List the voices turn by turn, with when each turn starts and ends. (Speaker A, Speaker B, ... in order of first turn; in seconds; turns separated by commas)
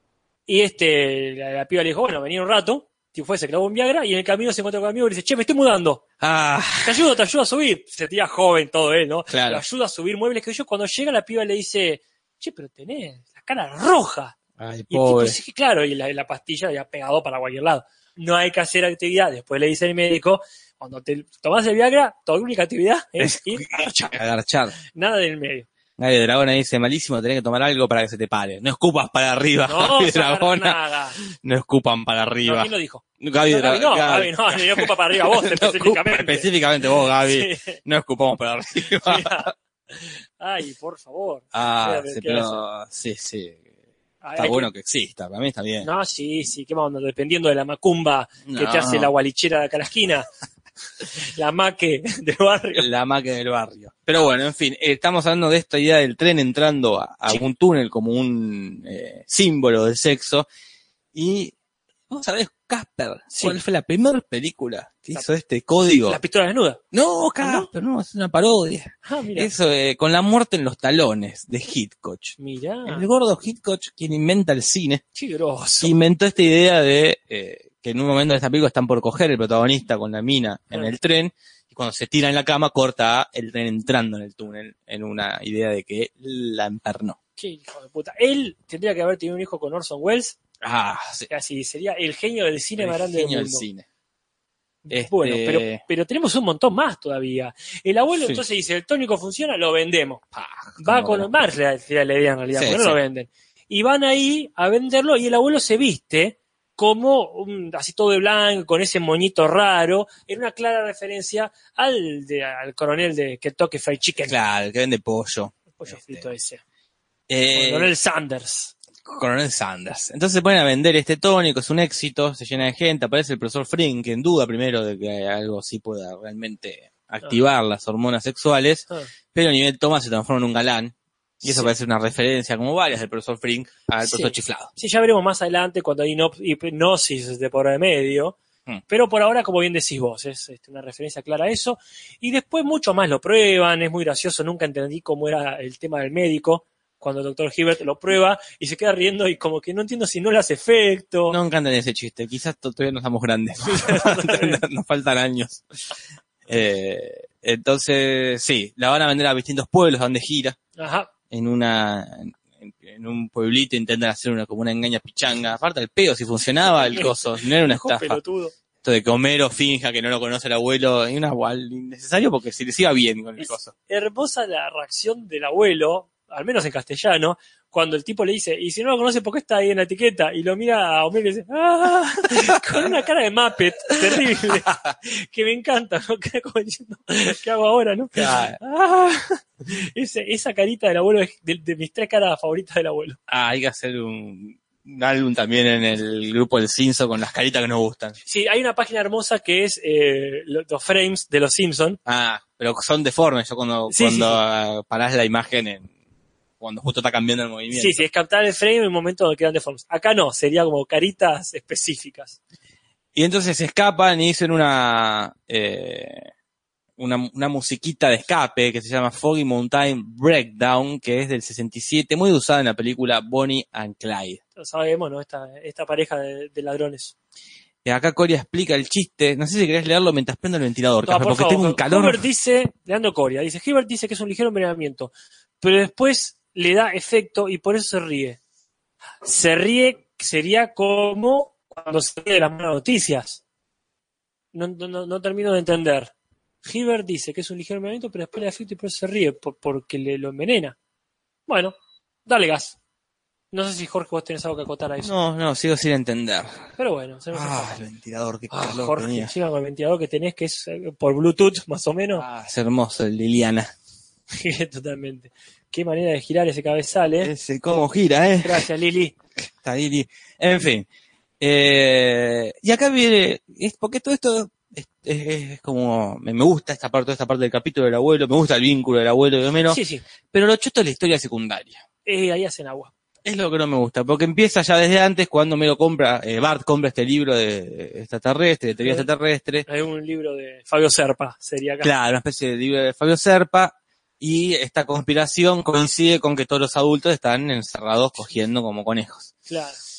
Speaker A: 0.5-6.0, Speaker B: 6.2-7.0, Speaker A: 6.8-14.3, Speaker B: 9.3-9.6, Speaker B: 14.6-15.4, Speaker A: 14.9-23.9, Speaker B: 23.2-24.7, Speaker A: 24.9-25.7, Speaker B: 26.0-39.5, Speaker A: 29.7-31.2, Speaker A: 32.4-36.5, Speaker A: 37.2-37.8, Speaker A: 39.0-42.6, Speaker B: 41.5-43.6, Speaker A: 44.2-44.7, Speaker B: 44.4-45.9, Speaker A: 45.8-50.3, Speaker B: 48.5-49.1, Speaker A: 51.1-52.9, Speaker B: 52.8-60.5, Speaker B: 61.1-61.5, Speaker B: 62.1-66.2, Speaker A: 63.3-63.6, Speaker A: 66.1-66.8, Speaker B: 66.9-75.0, Speaker A: 67.4-67.7, Speaker A: 69.0-69.5, Speaker A: 72.4-73.1, Speaker A: 75.1-75.9, Speaker B: 75.8-87.2, Speaker A: 87.4-90.4, Speaker B: 90.6-91.3, Speaker A: 91.3-93.7, Speaker B: 92.8-93.8, Speaker A: 94.8-100.2, Speaker B: 94.9-95.8, Speaker B: 100.3-101.3, Speaker A: 100.8-114.4, Speaker B: 102.5-103.0, Speaker B: 114.2-116.2, Speaker A: 115.8-116.6, Speaker B: 117.3-117.9, Speaker A: 117.5-118.7, Speaker B: 119.0-134.7, Speaker A: 131.4-131.7, Speaker A: 134.0-138.4, Speaker A: 138.9-151.4, Speaker B: 151.3-155.6, Speaker A: 153.6-154.6, Speaker B: 156.5-160.6, Speaker A: 160.8-161.1, Speaker B: 161.3-168.2, Speaker A: 166.6-168.5, Speaker B: 168.8-173.7, Speaker A: 173.4-188.4, Speaker B: 182.3-182.9, Speaker B: 184.1-184.9, Speaker B: 188.1-189.2, Speaker A: 189.7-193.2, Speaker B: 193.3-198.2, Speaker A: 198.2-202.0, Speaker B: 202.1-205.9, Speaker A: 203.9-204.4, Speaker B: 206.6-208.0, Speaker A: 207.7-212.4, Speaker B: 213.1-216.3, Speaker B: 217.0-224.4, Speaker A: 224.6-227.1, Speaker B: 227.8-232.2, Speaker A: 231.0-238.4, Speaker A: 239.2-243.4, Speaker A: 244.5-250.8, Speaker A: 251.5-251.7, Speaker A: 252.2-252.8, Speaker A: 253.5-255.1, Speaker B: 255.0-256.7, Speaker A: 256.8-257.8, Speaker B: 257.3-259.3, Speaker A: 258.5-262.2, Speaker B: 262.1-263.7, Speaker A: 264.3-267.3, Speaker B: 267.2-268.6, Speaker A: 268.4-269.1, Speaker B: 269.4-270.9, Speaker B: 271.4-279.8, Speaker A: 279.7-280.0, Speaker B: 280.3-281.8, Speaker A: 282.0-282.9, Speaker B: 283.2-289.6, Speaker A: 289.7-291.9, Speaker B: 291.8-299.3, Speaker A: 299.5-299.8